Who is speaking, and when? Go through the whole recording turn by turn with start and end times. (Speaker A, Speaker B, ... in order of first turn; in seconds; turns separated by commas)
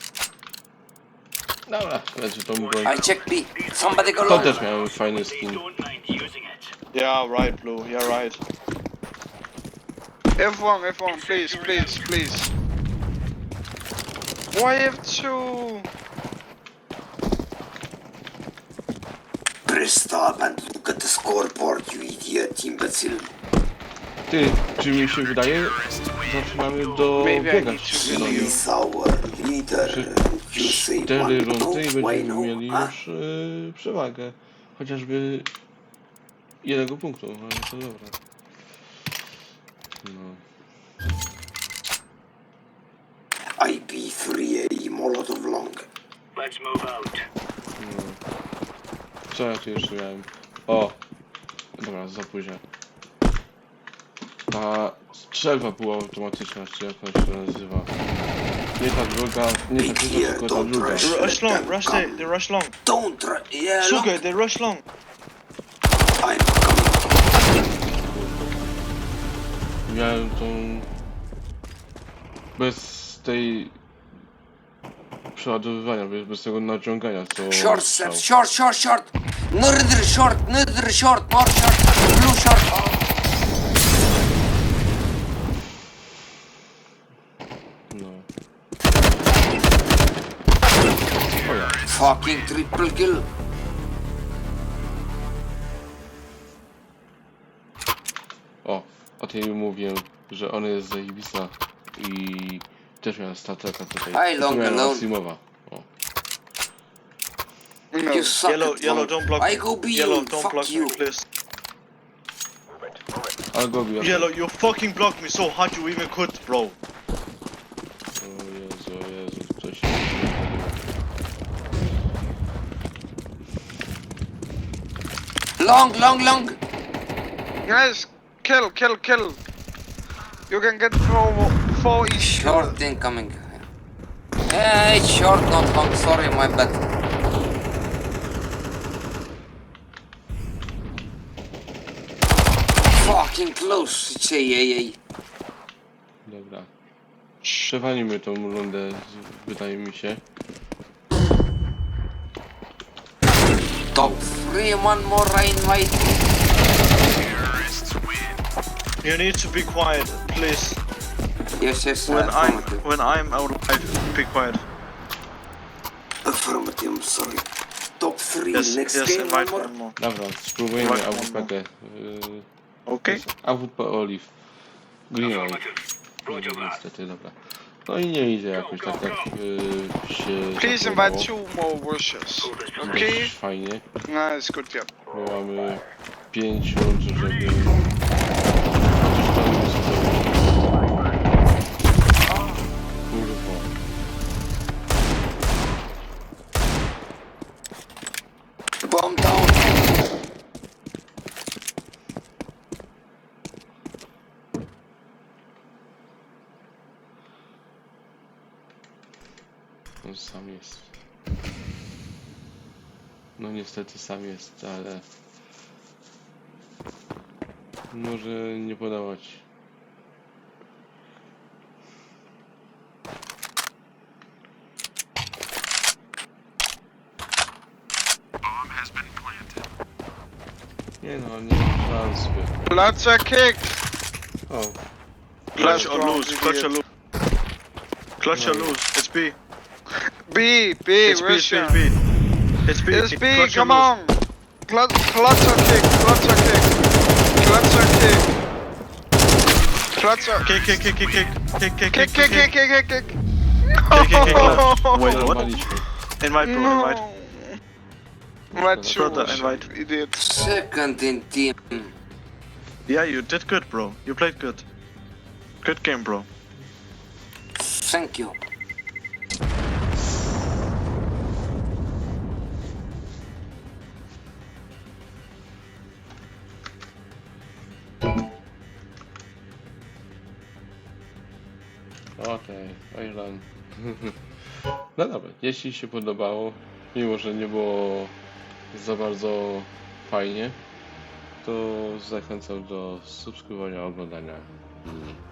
Speaker A: 1.7-3.1, Speaker B: 2.8-4.6, Speaker A: 4.2-5.6, Speaker C: 6.9-8.4, Speaker D: 10.4-12.5, Speaker D: 14.5-15.9, Speaker E: 19.6-23.3, Speaker A: 24.3-28.6, Speaker D: 27.2-28.6, Speaker E: 28.0-32.9, Speaker A: 29.8-35.5, Speaker A: 36.6-38.1, Speaker A: 40.0-40.4, Speaker E: 43.6-45.9, Speaker A: 47.8-48.2, Speaker A: 49.3-51.0, Speaker A: 51.8-52.6, Speaker A: 54.5-57.9, Speaker A: 58.8-61.3, Speaker E: 59.8-62.3, Speaker C: 61.0-62.7, Speaker E: 62.8-64.2, Speaker C: 63.8-64.8, Speaker E: 66.2-67.1, Speaker A: 68.0-68.8, Speaker A: 69.8-70.9, Speaker A: 72.6-73.7, Speaker A: 75.3-78.2, Speaker B: 77.5-82.7, Speaker A: 87.9-88.3, Speaker A: 91.3-91.8, Speaker B: 91.8-93.2, Speaker A: 98.6-105.9, Speaker B: 104.1-105.0, Speaker D: 107.9-108.4, Speaker B: 108.1-111.0, Speaker C: 108.4-111.2, Speaker A: 113.5-114.3, Speaker C: 114.0-116.8, Speaker A: 118.1-120.9, Speaker B: 125.6-126.6, Speaker D: 127.7-129.4, Speaker D: 130.5-132.8, Speaker B: 132.2-133.6, Speaker B: 134.5-136.9, Speaker B: 142.9-145.0, Speaker A: 146.2-146.7, Speaker A: 147.5-150.2, Speaker B: 153.9-156.1, Speaker C: 159.0-160.8, Speaker B: 161.6-162.8, Speaker C: 162.1-164.6, Speaker E: 166.2-167.5, Speaker E: 168.0-168.8, Speaker C: 168.5-170.0, Speaker B: 168.8-169.7, Speaker A: 170.0-172.4, Speaker C: 170.8-171.5, Speaker C: 172.9-173.2, Speaker A: 173.1-174.3, Speaker A: 175.1-175.7, Speaker A: 176.2-181.3, Speaker D: 180.6-183.3, Speaker A: 182.8-183.8, Speaker D: 184.1-184.9, Speaker A: 185.1-187.8, Speaker A: 189.0-190.4, Speaker A: 193.1-193.7, Speaker B: 198.8-199.9, Speaker A: 210.0-210.9, Speaker A: 213.4-215.0, Speaker A: 217.9-219.4, Speaker A: 231.0-232.9, Speaker D: 232.7-233.7, Speaker A: 234.5-234.8, Speaker C: 235.5-236.8, Speaker D: 235.6-236.7, Speaker A: 235.6-235.9, Speaker C: 238.2-239.3, Speaker A: 238.3-238.8, Speaker D: 240.2-241.8, Speaker C: 241.0-241.9, Speaker C: 242.7-243.9, Speaker D: 242.9-244.2, Speaker D: 244.7-246.7, Speaker D: 247.4-248.3, Speaker D: 249.9-250.5, Speaker C: 250.4-252.5, Speaker D: 251.9-253.2, Speaker D: 253.7-255.4, Speaker C: 253.9-255.6, Speaker A: 254.1-255.9, Speaker C: 256.2-257.0, Speaker D: 256.4-257.6, Speaker A: 258.5-259.7, Speaker D: 258.5-260.2, Speaker C: 258.9-259.6, Speaker B: 260.2-261.9, Speaker C: 262.9-264.6, Speaker C: 265.6-266.3, Speaker B: 267.6-268.4, Speaker A: 282.2-284.1, Speaker A: 284.9-288.1, Speaker A: 288.7-290.6, Speaker A: 291.4-295.0